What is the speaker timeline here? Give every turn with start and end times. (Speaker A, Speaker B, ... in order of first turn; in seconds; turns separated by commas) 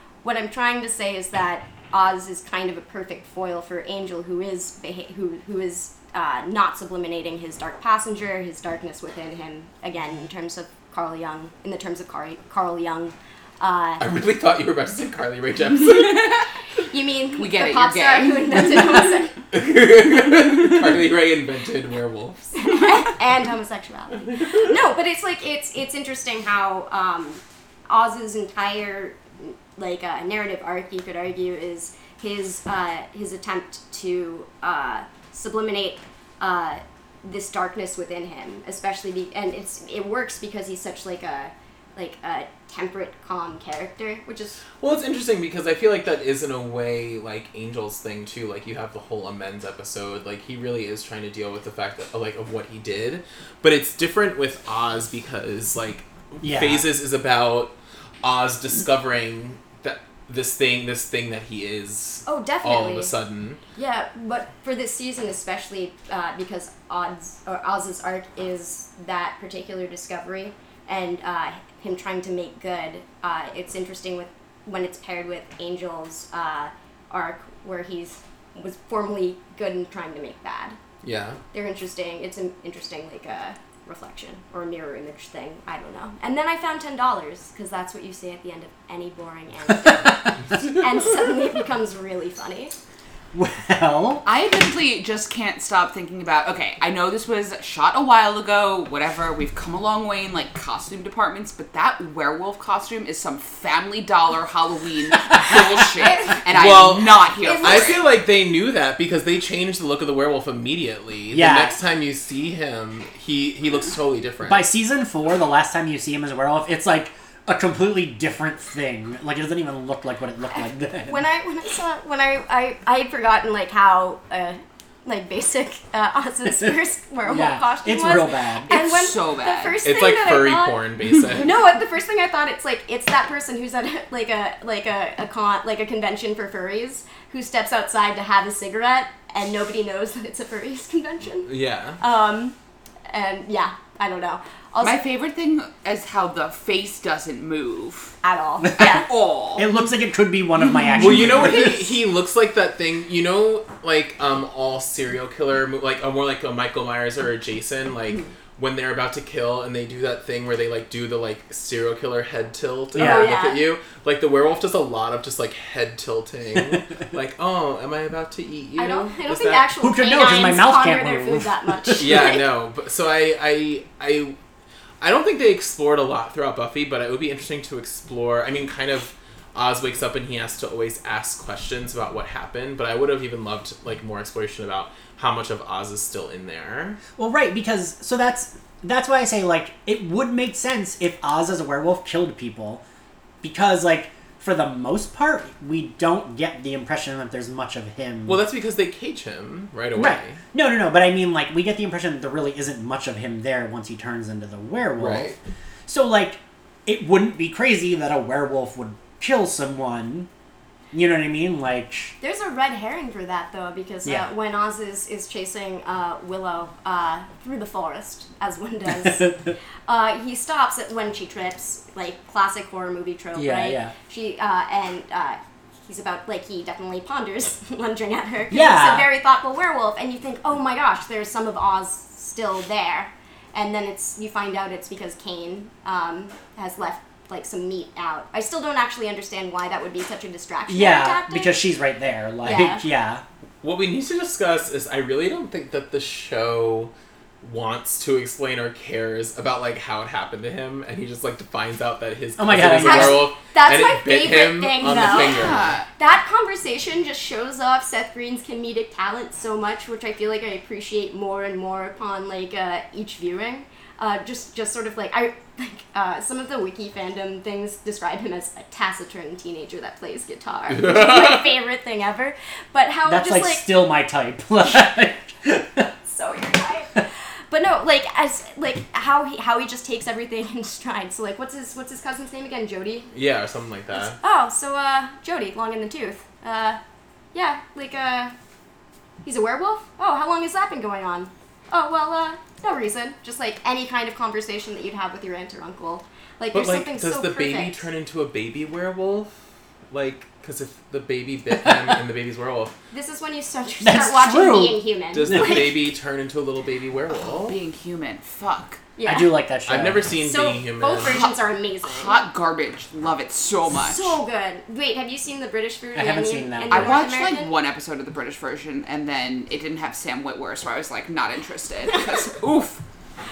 Speaker A: 0.2-14.0, Speaker B: 14.0-16.5, Speaker A: 16.9-19.4, Speaker C: 17.4-18.8, Speaker B: 19.5-22.5, Speaker A: 22.6-44.6, Speaker B: 44.8-63.6, Speaker D: 56.4-56.9, Speaker A: 62.2-63.1, Speaker A: 63.8-80.8, Speaker B: 81.0-81.4, Speaker A: 81.5-92.7, Speaker D: 93.3-94.2, Speaker C: 94.2-108.0, Speaker B: 106.5-114.7, Speaker A: 107.4-108.0, Speaker D: 111.3-111.8, Speaker D: 114.5-121.2, Speaker A: 121.0-130.8, Speaker D: 127.2-128.7, Speaker C: 128.7-129.8, Speaker B: 129.8-131.6, Speaker A: 131.3-142.6, Speaker B: 141.4-142.0, Speaker A: 143.1-145.0, Speaker C: 144.8-148.1, Speaker A: 148.2-149.1, Speaker D: 148.6-149.0, Speaker C: 148.8-149.7, Speaker D: 149.6-152.0, Speaker C: 150.9-151.4, Speaker B: 151.0-169.7, Speaker D: 162.9-163.3, Speaker A: 163.0-163.7, Speaker A: 168.8-172.4, Speaker D: 169.8-172.2, Speaker B: 172.0-174.4, Speaker B: 175.0-187.0, Speaker D: 187.2-192.8, Speaker D: 193.4-198.4, Speaker B: 198.3-200.4, Speaker D: 199.9-205.3, Speaker B: 205.0-205.4, Speaker D: 205.9-210.3, Speaker D: 210.9-212.2, Speaker A: 212.2-241.6, Speaker D: 219.1-219.5, Speaker D: 223.3-223.9, Speaker D: 228.5-229.1, Speaker D: 240.7-243.2, Speaker A: 242.4-242.8, Speaker B: 243.6-255.8, Speaker D: 252.4-253.3, Speaker A: 252.8-273.7, Speaker C: 254.8-255.9, Speaker D: 273.1-275.9, Speaker A: 276.1-283.1, Speaker B: 283.1-284.2, Speaker A: 283.9-286.8, Speaker A: 287.3-288.3, Speaker A: 289.2-297.8, Speaker B: 296.5-299.3, Speaker B: 299.9-302.7, Speaker D: 301.6-301.9, Speaker A: 302.9-305.8, Speaker D: 303.8-305.7, Speaker B: 305.1-307.6, Speaker C: 307.3-308.8, Speaker A: 309.0-309.3, Speaker D: 309.1-310.1, Speaker B: 309.7-311.2, Speaker A: 310.2-312.2, Speaker C: 311.1-314.2, Speaker A: 313.8-317.5, Speaker D: 315.9-317.0, Speaker C: 316.7-322.8